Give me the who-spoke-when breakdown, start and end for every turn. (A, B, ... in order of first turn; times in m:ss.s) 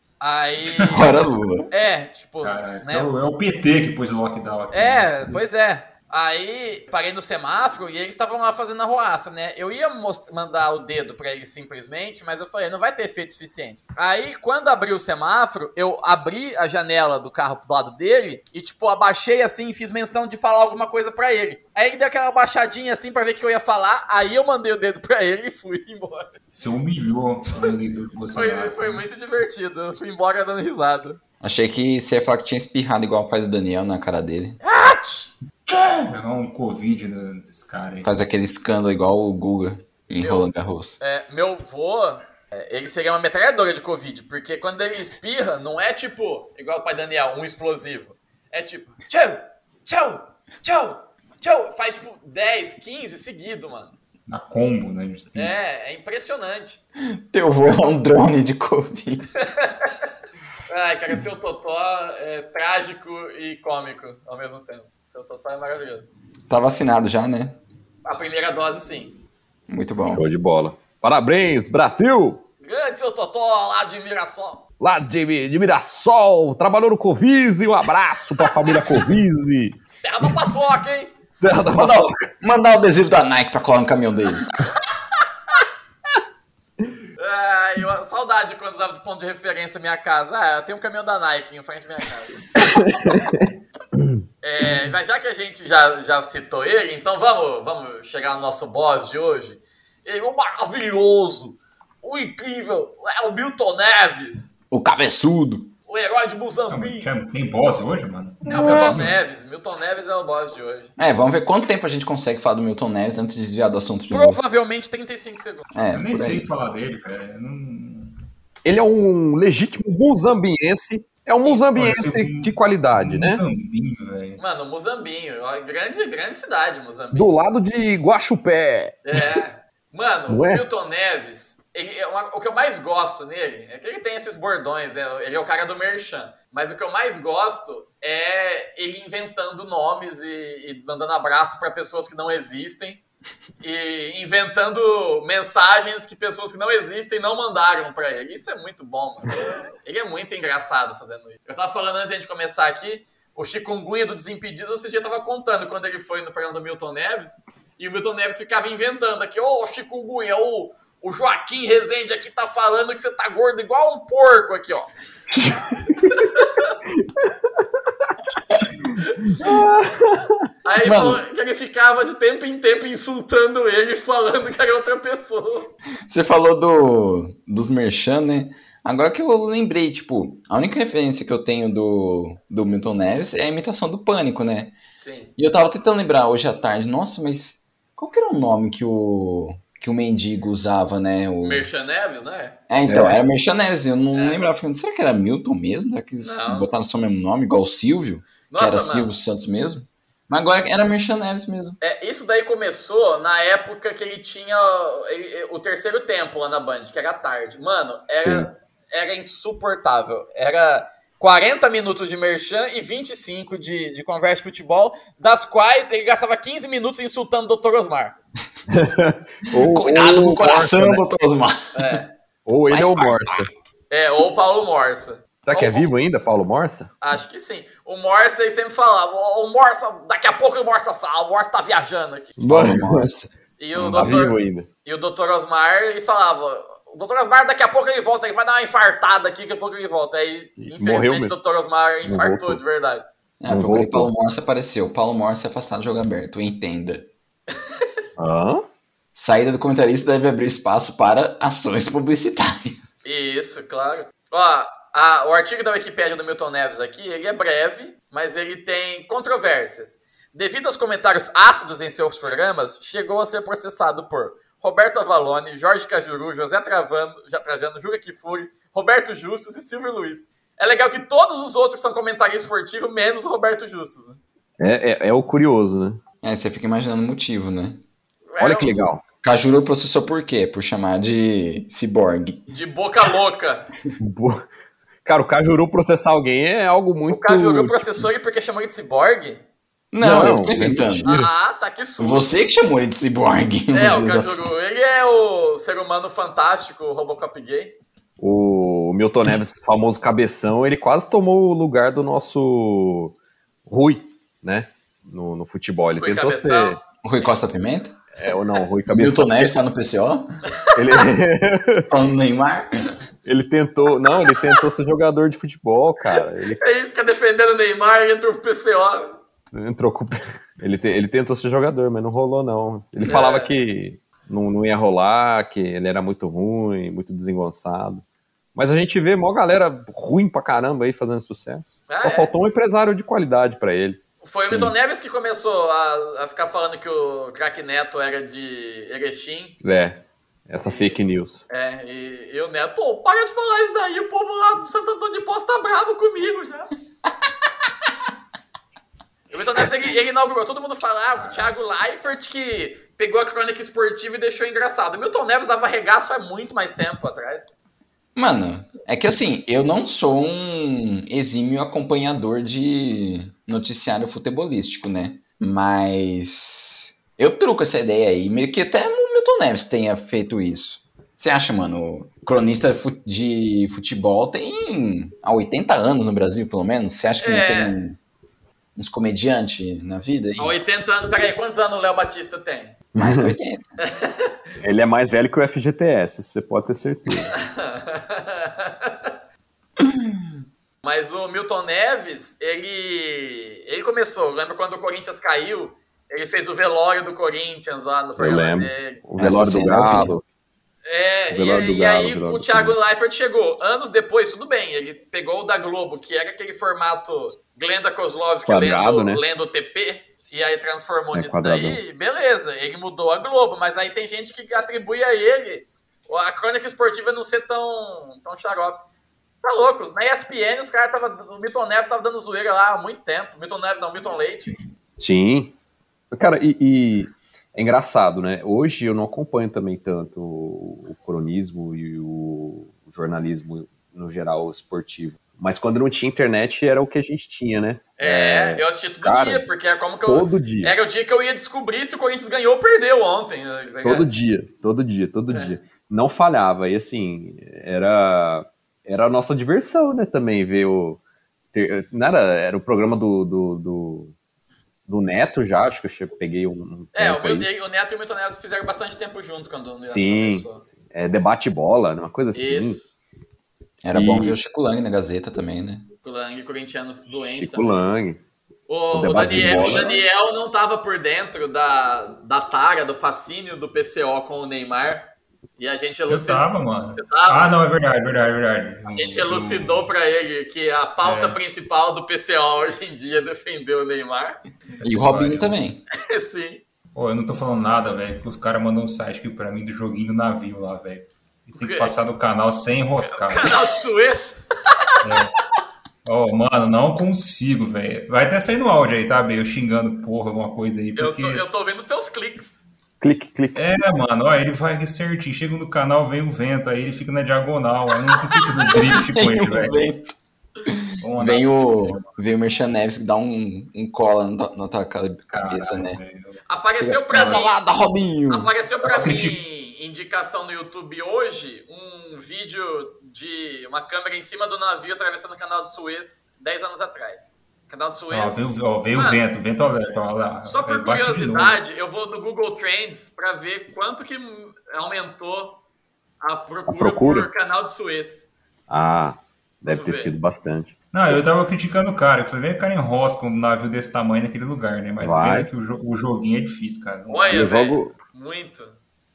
0:00.2-0:01.1 A
0:00.7-0:01.0 B
0:00.9-0:01.7 C
0:01.7-0:03.1 A
0:02.4-0:05.3 B
0:04.7-0:26.3 A
0:26.5-0:29.0 B
0:28.3-0:31.2 A
0:31.4-0:34.6 C
0:34.6-0:35.3 A
0:35.7-0:38.3 B
0:38.0-0:41.0 C
0:40.2-0:53.9 A
0:54.3-0:55.5 B
0:55.3-0:56.8 A
0:57.0-0:59.3 C
0:59.4-0:59.9 A
1:00.7-1:06.1 A
1:06.5-1:07.6 C
1:08.0-1:09.2 A
1:09.7-1:10.2 C
1:10.1-1:12.4 D
1:12.6-1:14.6 A
1:14.8-1:19.8 D
1:20.0-1:21.1 A
1:21.4-1:22.1 D
1:21.7-1:24.5 C
1:27.2-1:32.4 A
1:32.6-1:33.5 D
1:34.4-1:44.5 A
1:44.7-1:45.7 C
1:45.9-1:47.1 A
1:46.7-1:49.1 B
1:48.4-1:50.9 A
1:48.5-1:49.0 C
1:51.0-1:54.4 C
1:54.1-1:55.6 A
1:55.7-1:56.5 C
1:55.9-1:58.2 B
1:58.6-2:03.4 D
2:01.7-2:04.4 B
2:04.4-2:07.3 A
2:07.1-2:09.4 D
2:09.0-2:23.0 A
2:10.3-2:10.6 D
2:23.6-2:44.9 A
2:45.3-2:46.2 D
2:46.0-2:46.7 A
2:47.0-2:47.3 D
2:49.3-2:50.4 D
2:50.6-2:55.7 A
2:50.8-2:51.2 C
2:56.0-3:04.8 C
3:05.0-3:05.3 A
3:05.4-3:11.6 C
3:11.4-3:12.6 A
3:12.7-3:21.8 C
3:12.9-3:13.2 D
3:14.1-3:14.4 A
3:16.2-3:16.7 A
3:18.5-3:19.1 A
3:21.8-3:38.2 A
3:28.2-3:28.5 D
3:38.7-3:41.0 D
3:39.5-3:42.0 C
3:41.7-3:42.1 A
3:42.4-3:43.5 D
3:42.7-3:43.5 C
3:43.9-3:45.9 A
3:45.4-3:46.9 D
3:47.0-3:52.4 A
3:52.4-3:53.1 D
3:52.4-3:53.3 C
3:53.6-4:03.0 A
3:53.7-3:54.7 D
4:00.6-4:01.3 D
4:02.0-4:02.6 D
4:03.4-4:07.1 C
4:03.5-4:04.1 D
4:08.2-4:08.6 D
4:09.1-4:12.8 C
4:13.0-4:34.2 A
4:34.6-4:36.0 D
4:36.2-4:37.8 C
4:38.3-4:38.7 A
4:38.4-4:39.0 D
4:39.2-4:42.4 C
4:42.5-4:43.7 A
4:44.0-4:44.4 D
4:45.0-4:47.8 D
4:47.1-4:49.4 A
4:49.9-4:51.1 C
4:50.0-4:51.3 D
4:50.9-4:52.4 A
4:52.0-4:54.5 C
4:53.7-4:57.8 A
4:58.2-5:03.1 D
5:03.7-5:06.8 D
5:06.0-5:07.3 A
5:07.0-5:08.0 C
5:08.2-5:09.5 D
5:08.8-5:10.4 C
5:10.7-5:11.9 D
5:11.9-5:13.0 C
5:13.2-5:16.6 D
5:16.6-5:19.2 A
5:19.5-5:28.0 D
5:23.0-5:23.5 A
5:28.5-5:34.7 D
5:31.9-5:32.3 A
5:34.2-5:39.5 A
5:39.6-5:41.4 D
5:40.6-5:46.7 A
5:49.3-5:57.5 A
5:51.2-5:51.5 B
5:58.2-6:18.0 C
6:17.2-6:17.8 A
6:18.8-6:20.6 C
6:20.4-6:22.8 A
6:22.9-6:23.6 C
6:23.0-6:23.4 D
6:23.8-6:24.3 A
6:24.6-6:27.3 D
6:27.3-6:29.1 A
6:29.8-6:30.3 C
6:30.8-6:39.0 A
6:38.2-6:40.2 D
6:39.2-6:40.2 C
6:40.8-6:58.8 A
6:41.3-6:42.8 D
6:48.5-6:49.2 D
6:51.1-6:51.8 D
6:59.4-7:04.5 A
7:05.0-7:05.5 D
7:06.1-7:19.4 D
7:18.0-7:24.1 A
7:20.1-7:20.8 D
7:23.8-7:31.0 D
7:25.3-7:25.6 A
7:31.5-7:34.1 D
7:34.9-7:37.5 D
7:36.9-7:40.6 A
7:39.8-7:42.8 D
7:42.3-7:43.0 A
7:43.8-7:45.9 C
7:43.9-7:44.4 D
7:46.0-7:47.8 A
7:47.1-7:48.2 D
7:48.7-7:57.5 A
7:48.9-7:50.0 D
7:56.1-7:59.9 B
7:58.9-8:04.4 A
8:01.0-8:01.4 B
8:04.8-8:05.8 C
8:04.9-8:05.5 B
8:06.0-8:06.6 A
8:06.9-8:13.5 B
8:11.6-8:11.9 A
8:13.0-8:15.0 A
8:15.0-8:15.3 B
8:16.0-8:21.4 B
8:21.0-8:22.6 A
8:23.0-8:23.6 D
8:23.5-8:29.8 B
8:28.7-8:30.1 C
8:30.6-8:36.0 C
8:31.0-8:32.1 B
8:35.3-8:36.4 B
8:36.5-8:37.6 A
8:36.8-8:38.5 C
8:37.1-8:37.4 B
8:38.3-8:48.4 A
8:38.8-8:39.4 B
8:48.1-8:51.6 B
8:48.9-8:49.2 A
8:50.4-8:55.6 A
8:56.2-8:58.3 A
8:56.7-8:57.3 D
8:58.7-9:01.2 D
8:59.6-9:00.1 A
9:00.9-9:07.5 B
9:05.0-9:05.5 D
9:07.1-9:08.7 A
9:07.3-9:07.9 D